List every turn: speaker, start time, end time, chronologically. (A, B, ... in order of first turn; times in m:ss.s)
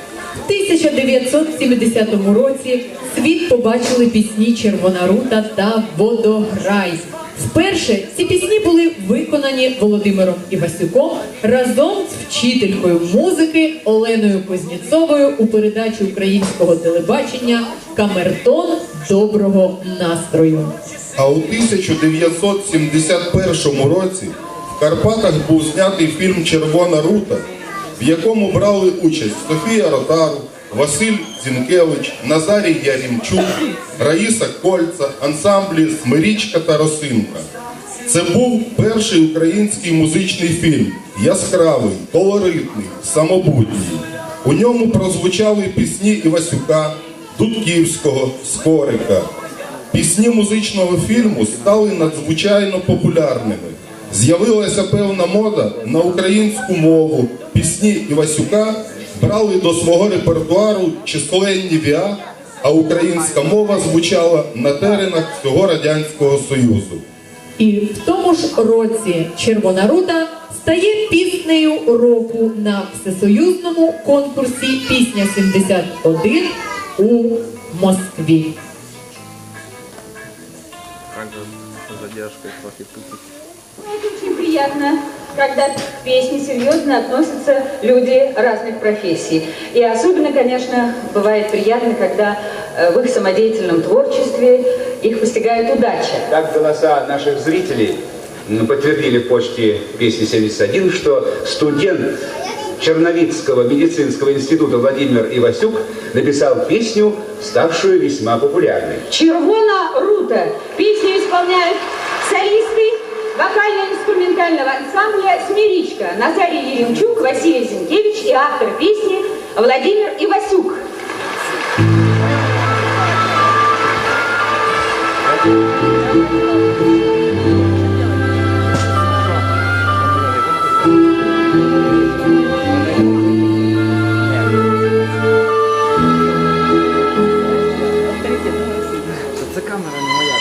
0:00.4-0:20.7 A
0:21.2-0:27.4 B
0:28.0-0:37.5 B
0:38.1-0:49.3 B
0:49.9-1:07.0 B
1:07.6-1:18.5 A
1:21.1-1:23.2 C
1:23.8-1:36.3 D
1:36.3-1:49.0 E
1:49.1-2:00.8 D